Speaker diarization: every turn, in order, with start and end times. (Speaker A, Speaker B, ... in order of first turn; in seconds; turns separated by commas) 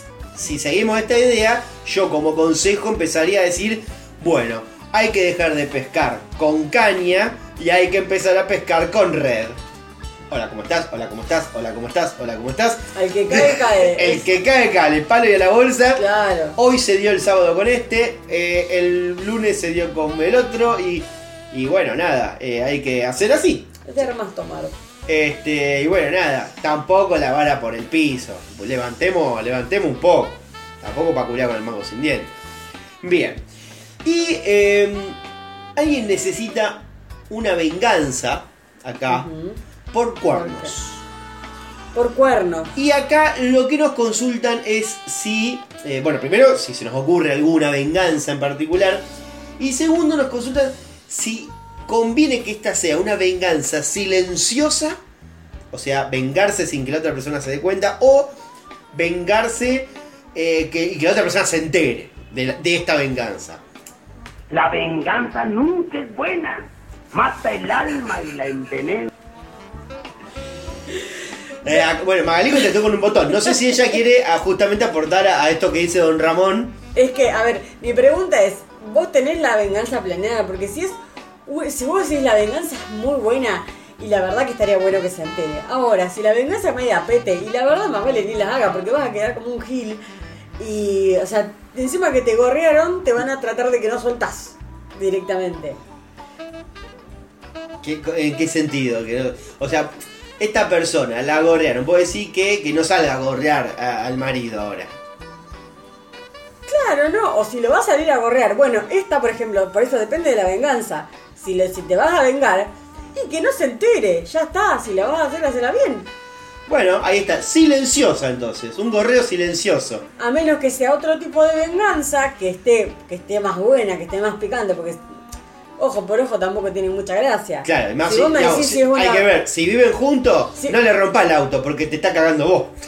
Speaker A: 0.3-9.6, Speaker A: 10.3-16.0, Speaker B: 12.9-14.3, Speaker B: 16.0-16.6, Speaker A: 16.6-24.0, Speaker B: 23.9-24.7, Speaker A: 25.1-32.4, Speaker A: 33.0-33.4, Speaker A: 34.0-35.2, Speaker A: 35.8-39.3, Speaker B: 39.1-39.6, Speaker A: 39.9-41.0, Speaker B: 40.3-40.8, Speaker B: 41.9-42.7, Speaker A: 42.8-49.0, Speaker A: 49.6-55.0, Speaker A: 55.7-58.3, Speaker A: 58.9-63.6, Speaker C: 64.5-69.1, Speaker A: 71.6-76.8, Speaker B: 77.0-90.0, Speaker B: 90.6-95.8, Speaker A: 97.8-104.9, Speaker B: 106.7-116.1, Speaker A: 116.7-120.0, Speaker B: 120.2-125.0, Speaker B: 125.8-129.3, Speaker A: 127.6-132.8